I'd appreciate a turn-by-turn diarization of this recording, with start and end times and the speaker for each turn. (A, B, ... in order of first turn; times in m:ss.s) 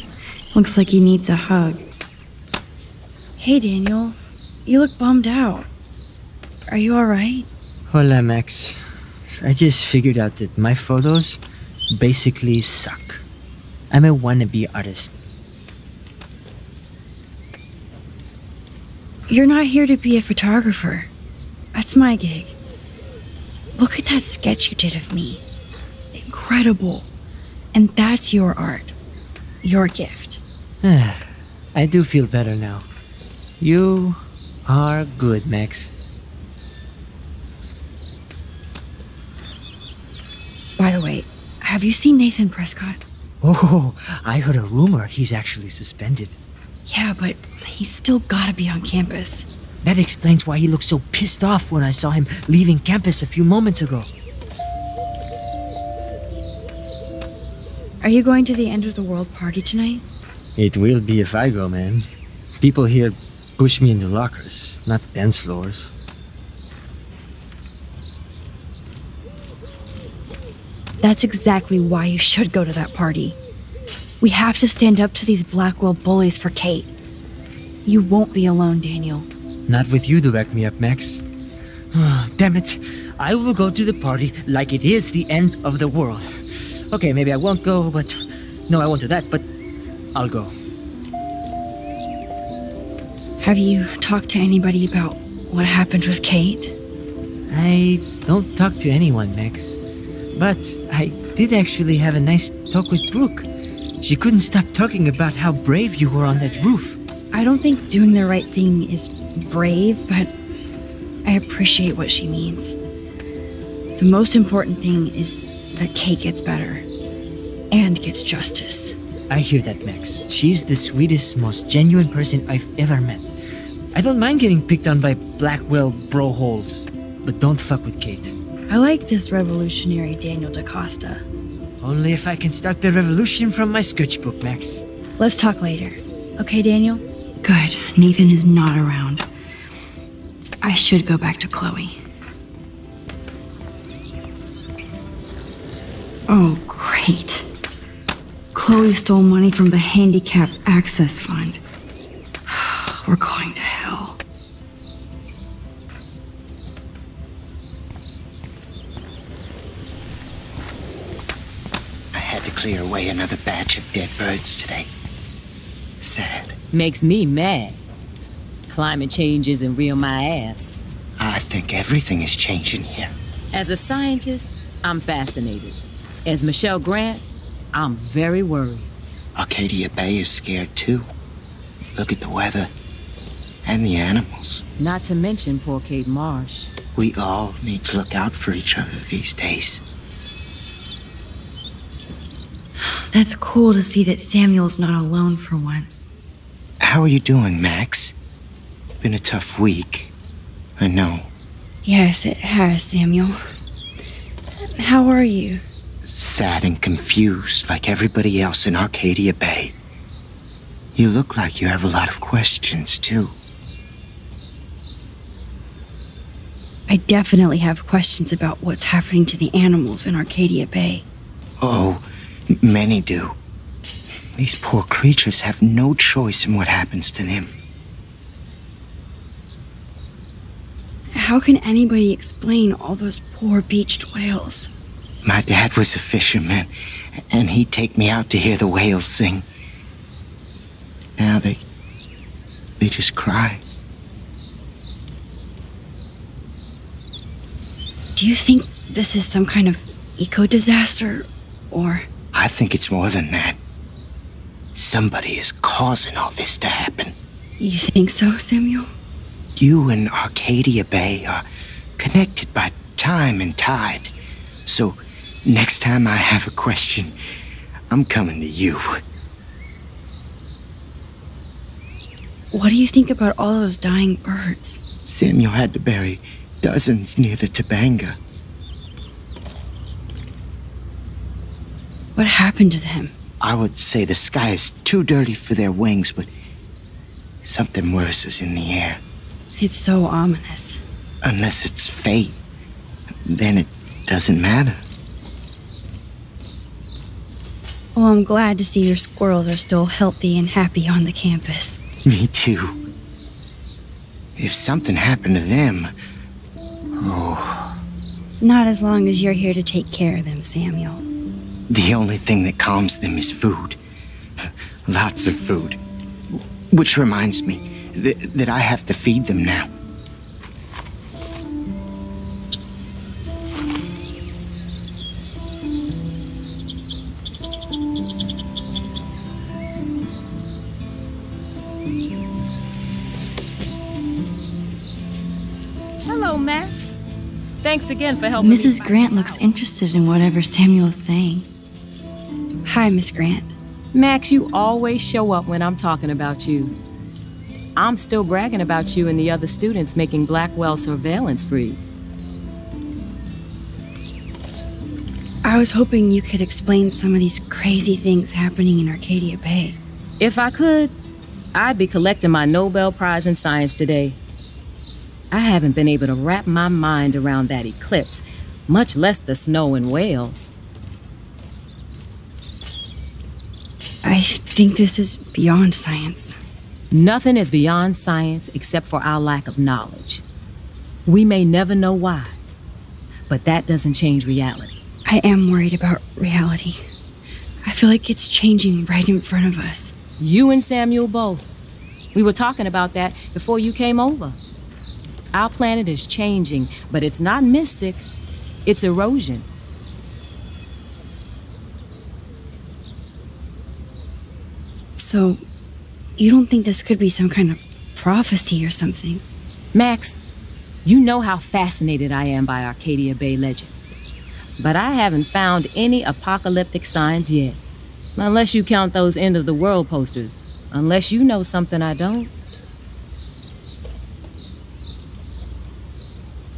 0:00.5-0:01.8 A
0:03.4-0:05.7 A
0:06.7-0:07.5 A
0:07.9-0:08.8 B
0:09.4-0:11.4 B
0:11.9-0:13.2 B
0:13.9-0:15.1 B
0:19.3-0:21.1 A
0:21.7-0:22.6 A
0:23.8-0:25.4 A
0:26.1-0:27.1 A
0:27.7-0:28.9 A
0:29.6-0:30.4 A
0:30.8-0:31.2 B
0:31.7-0:32.9 B
0:33.6-0:35.9 B
0:40.8-0:43.0 A
0:43.4-0:46.4 B
0:46.9-0:49.5 A
0:49.8-0:54.1 B
0:58.0-1:00.0 A
1:00.6-1:02.0 B
1:02.6-1:05.9 B
1:11.0-1:13.4 A
1:14.2-1:16.9 A
1:17.8-1:19.3 A
1:19.7-1:21.2 B
1:21.9-1:26.3 B
1:26.9-1:29.4 B
1:30.1-1:30.5 B
1:33.4-1:36.8 A
1:37.5-1:39.8 B
1:40.3-1:43.5 B
1:44.0-1:47.0 B
1:47.3-1:50.3 A
1:51.2-1:52.8 A
1:54.0-1:56.8 A
1:57.7-1:58.9 A
1:59.3-2:03.3 B
2:03.9-2:08.3 B
2:08.7-2:11.2 A
2:11.8-2:14.8 B
2:15.2-2:19.2 A
2:20.6-2:22.0 A
2:26.3-2:27.5 A
2:28.5-2:31.6 A
2:32.5-2:34.2 A
2:42.1-2:44.9 C
2:46.0-2:46.6 C
2:46.7-2:47.8 D
2:48.7-2:50.8 D
2:51.2-2:53.1 C
2:53.5-2:57.2 D
2:57.7-2:58.9 D
2:59.4-3:01.1 C
3:02.0-3:02.7 C
3:03.6-3:04.6 C
3:04.8-3:06.7 D
3:06.9-3:09.8 C
3:13.1-3:16.1 A
3:16.8-3:18.1 C
3:19.0-3:20.1 C
3:20.8-3:21.3 C
3:21.8-3:23.4 A
3:24.7-3:25.6 A
3:26.1-3:29.7 C
3:30.9-3:33.3 C
3:36.9-3:41.0 A
3:41.6-3:42.0 C
3:42.6-3:43.4 C
3:44.4-3:47.5 C
3:51.1-3:54.7 A
3:55.2-3:56.7 C
3:57.3-3:59.4 C
4:01.2-4:01.6 C
4:02.8-4:03.6 C
4:08.2-4:12.1 A
4:12.3-4:13.6 C
4:14.7-4:17.1 C
4:17.6-4:18.9 A
4:19.6-4:21.4 C
4:22.0-4:24.1 C
4:24.6-4:27.2 C
4:27.9-4:29.0 C
4:32.5-4:34.8 A
4:35.0-4:38.2 C
4:42.2-4:43.1 A
4:43.4-4:46.3 C
4:47.4-4:49.0 C
4:49.6-4:50.8 A
4:51.2-4:52.4 C
4:53.2-4:54.8 C
4:57.9-5:01.8 A
5:02.0-5:02.8 C
5:04.4-5:05.9 C
5:07.0-5:07.7 C
5:08.4-5:11.0 A
5:11.7-5:13.8 C
5:14.9-5:15.8 C
5:16.7-5:19.7 C
5:36.0-5:36.9 D
5:37.6-5:39.3 D
5:38.4-5:41.5 A
5:42.6-5:43.5 A
5:43.9-5:46.7 D
5:47.8-5:51.8 D
5:55.4-5:59.8 A
6:00.2-6:00.9 D
6:01.5-6:04.2 D
6:05.3-6:10.5 D
6:14.0-6:16.4 A
6:16.9-6:20.2 D
6:21.0-6:22.4 D
6:23.3-6:24.8 D
6:25.0-6:26.8 A
6:27.6-6:29.9 A
6:30.2-6:31.5 D
6:32.1-6:34.4 D
6:35.3-6:38.1 D
6:38.6-6:39.4 D
6:45.0-6:45.4 A
6:46.2-6:49.2 A
6:49.7-6:50.2 D
6:50.8-6:53.9 D
6:54.6-6:57.6 D
6:58.2-7:02.3 D